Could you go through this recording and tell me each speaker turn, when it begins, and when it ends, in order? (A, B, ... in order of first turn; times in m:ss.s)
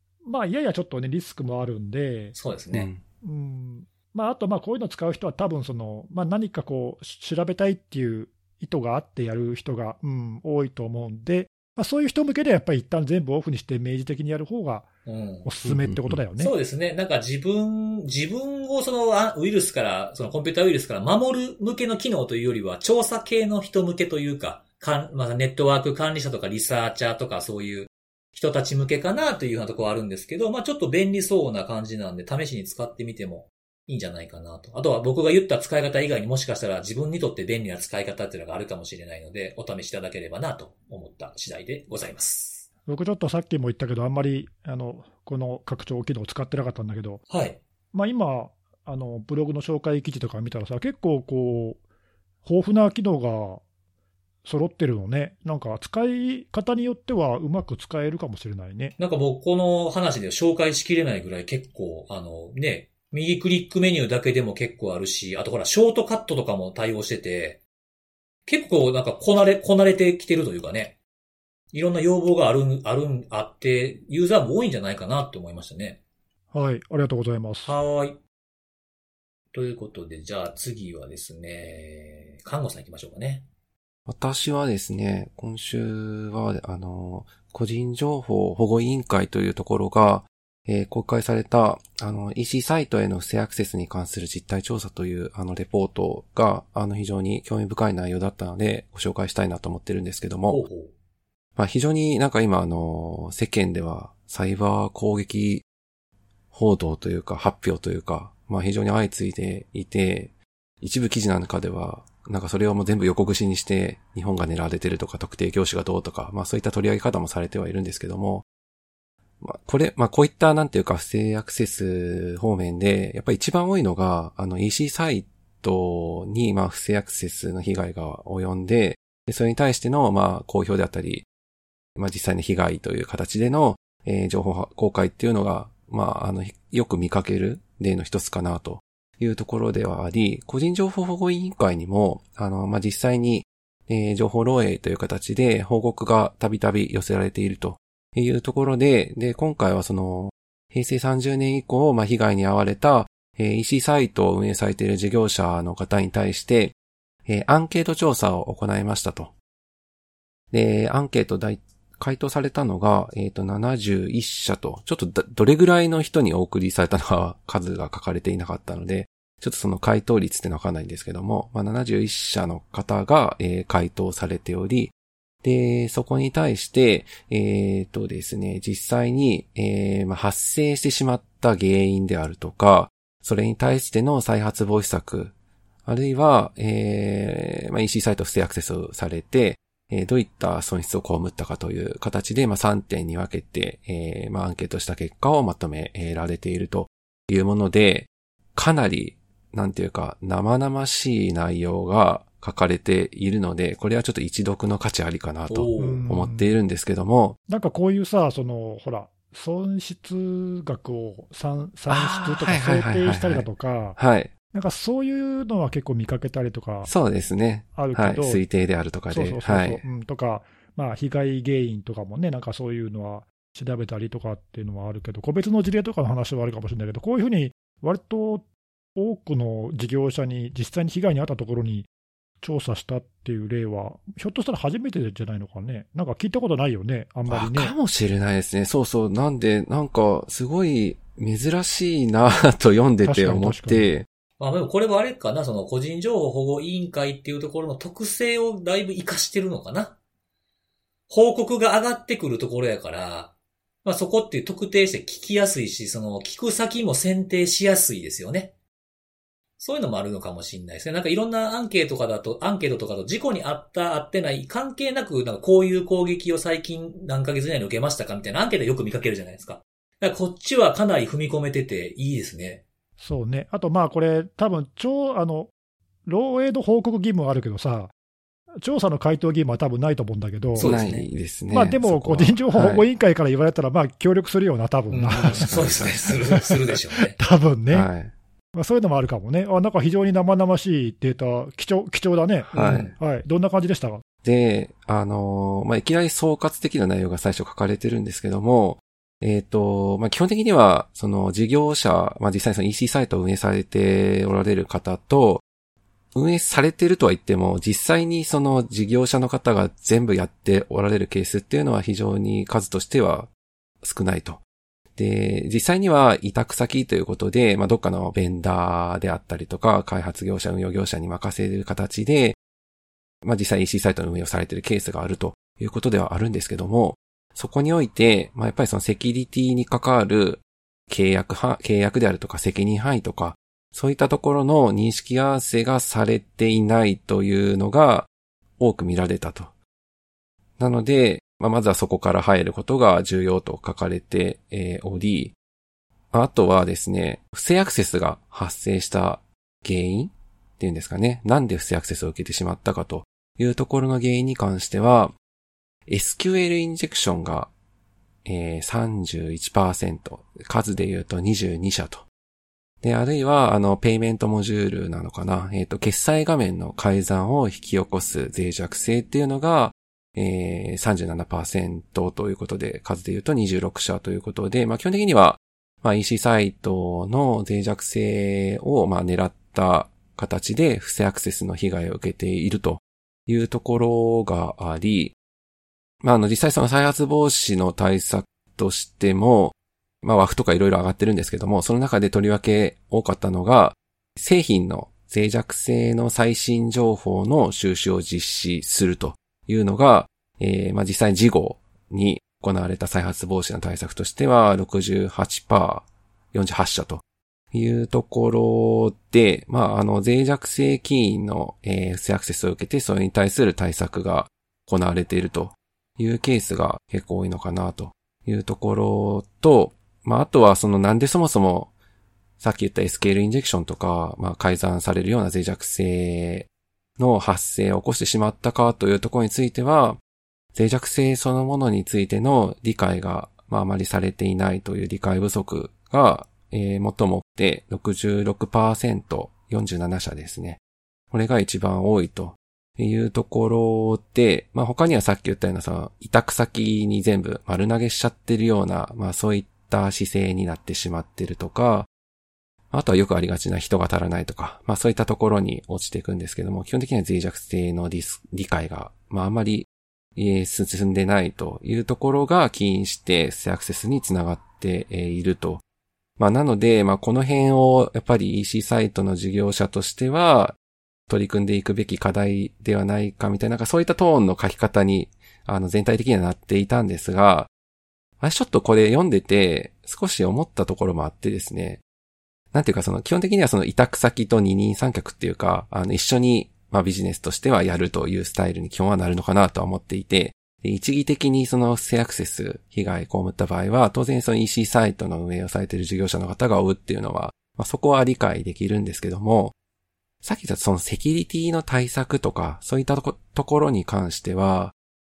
0:00.2-0:02.4 A
0:02.4-0:02.9 B
0:02.7-0:03.0 C
0:03.2-0:14.9 A
0:15.1-0:15.5 B
0:15.4-0:16.5 A
0:15.6-0:16.2 C
0:16.4-0:42.7 B
0:42.9-0:47.2 A
0:47.3-0:47.6 B
0:47.9-0:51.8 A
0:52.4-0:53.6 A
0:54.4-0:58.9 A
0:59.0-1:07.6 B
1:08.5-1:11.0 B
1:11.7-1:16.0 B
1:16.5-1:17.8 A
1:17.6-1:18.2 B
1:19.5-1:23.5 B
1:24.1-1:40.6 C
1:40.5-1:40.9 B
1:41.6-1:45.6 C
1:46.5-1:58.4 C
1:59.4-2:11.3 C
2:12.0-2:36.7 C
2:37.3-2:39.3 C
2:40.5-3:05.3 C
3:05.9-3:27.4 C
3:25.5-3:26.1 B
3:25.8-3:26.5 A
3:27.5-3:34.0 A
3:31.9-3:34.3 C
3:34.5-3:36.9 A
3:36.9-3:39.8 C
3:37.8-3:38.4 A
3:39.1-3:51.9 A
3:52.4-3:57.7 A
3:57.3-4:04.1 C
4:03.0-4:03.9 A
4:04.4-4:10.0 B
4:11.1-4:13.3 B
4:13.8-4:18.5 B
4:19.6-4:32.6 B
4:33.0-4:35.5 A
4:36.1-4:37.9 A
4:38.6-4:40.8 A
4:40.6-4:41.1 B
4:40.6-4:42.9 C
4:41.5-4:47.9 A
4:44.9-4:47.2 B
4:45.2-4:46.1 C
4:47.7-4:48.1 C
4:48.6-4:54.0 A
4:52.4-4:52.9 C
4:52.6-4:52.9 B
4:54.2-5:05.4 C
5:06.1-5:13.3 C
5:13.8-5:14.4 C
5:15.0-5:22.4 C
5:23.2-5:38.1 C
5:38.6-5:39.5 C
5:40.6-5:45.3 C
5:46.1-5:55.1 C
5:55.9-5:57.5 C
5:58.2-6:02.0 C
6:02.8-6:25.2 C
6:26.0-6:47.0 C
6:47.5-7:01.7 C
7:02.4-7:10.0 C
7:10.6-7:20.6 C
7:21.1-7:31.9 C
7:32.7-7:45.6 C
7:46.2-7:50.6 C
7:51.1-7:57.5 C
7:58.2-8:01.8 C
8:02.5-8:19.5 C
8:20.2-8:24.7 C